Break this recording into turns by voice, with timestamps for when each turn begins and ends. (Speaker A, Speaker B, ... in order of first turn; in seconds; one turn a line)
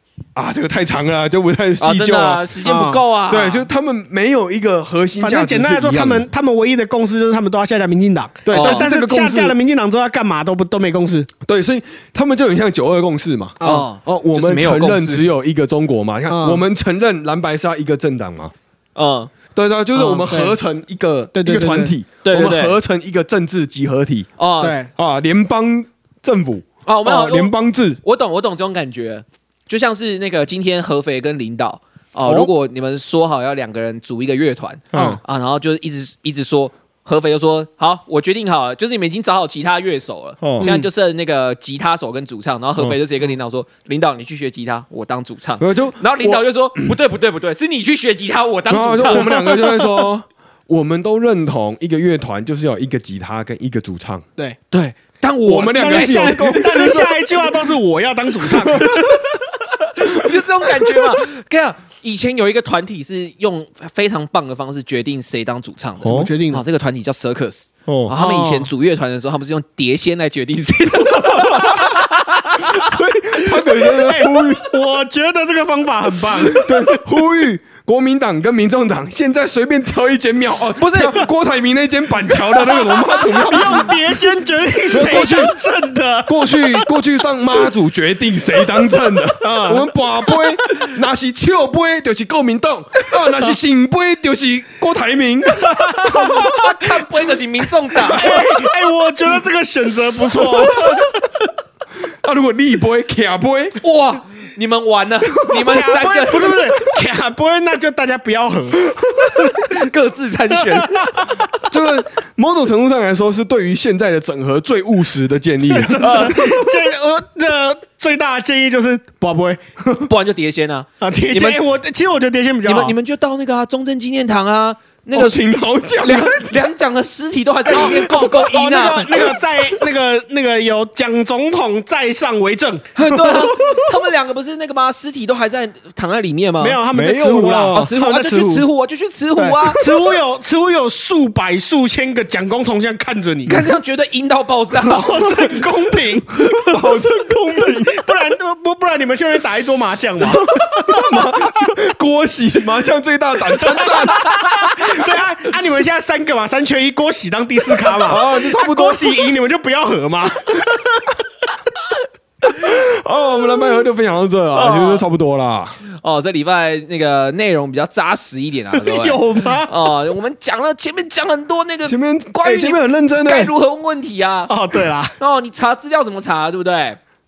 Speaker A: 0.3-2.5
Speaker B: 1.8-3.7
Speaker C: 2.6-3.0
Speaker A: 3.3-6.3
Speaker C: 5.2-11.3
Speaker A: 8.5-9.6
Speaker B: 8.5-8.9
Speaker A: 11.5-18.5
Speaker C: 13.6-13.9
Speaker B: 13.6-15.3
Speaker C: 16.3-16.6
Speaker B: 19.0-19.3
Speaker A: 19.6-24.3
Speaker C: 19.9-20.6
Speaker C: 21.3-21.9
Speaker B: 22.2-22.8
Speaker B: 24.4-24.8
Speaker C: 24.6-24.9
Speaker A: 24.9-28.0
Speaker B: 26.9-49.5
Speaker A: 34.9-35.2
Speaker C: 34.9-35.2
Speaker A: 40.4-40.7
Speaker C: 40.6-40.9
Speaker A: 45.6-47.0
Speaker A: 48.7-54.2
Speaker C: 49.2-49.8
Speaker B: 54.7-57.0
Speaker A: 55.5-57.2
Speaker C: 55.7-59.1
Speaker A: 58.5-59.1
Speaker B: 60.0-72.9
Speaker C: 66.0-66.6
Speaker A: 66.0-66.3
Speaker A: 67.9-68.1
Speaker C: 68.2-68.7
Speaker A: 71.1-71.9
Speaker A: 72.6-74.7
Speaker C: 73.8-77.0
Speaker A: 76.3-84.0
Speaker B: 80.8-81.2
Speaker C: 82.3-87.0
Speaker A: 84.9-85.5
Speaker A: 86.3-96.6
Speaker C: 89.4-90.5
Speaker C: 95.6-96.5
Speaker B: 96.1-98.5
Speaker C: 98.1-101.5
Speaker A: 98.2-98.6
Speaker A: 100.3-101.1
Speaker A: 102.2-103.8
Speaker B: 103.8-106.6
Speaker C: 105.6-108.8
Speaker B: 109.4-111.4
Speaker C: 110.8-111.3
Speaker A: 111.7-116.8
Speaker C: 115.7-119.6
Speaker B: 116.0-116.4
Speaker B: 120.1-121.6
Speaker C: 121.0-123.0
Speaker B: 122.7-125.5
Speaker A: 125.1-126.7
Speaker B: 126.0-129.3
Speaker C: 127.7-133.5
Speaker B: 132.9-136.8
Speaker A: 133.6-133.8
Speaker C: 136.6-138.7
Speaker A: 136.9-137.9
Speaker B: 137.7-139.8
Speaker C: 139.4-143.6
Speaker B: 143.5-145.2
Speaker C: 144.8-146.8
Speaker A: 146.3-148.1
Speaker C: 147.5-151.3
Speaker A: 150.3-155.1
Speaker C: 153.6-161.2
Speaker A: 158.0-159.2
Speaker A: 162.5-165.8
Speaker B: 164.5-165.1
Speaker B: 165.9-174.5
Speaker C: 168.7-169.7
Speaker A: 171.9-173.5
Speaker C: 174.5-175.2
Speaker B: 175.1-177.0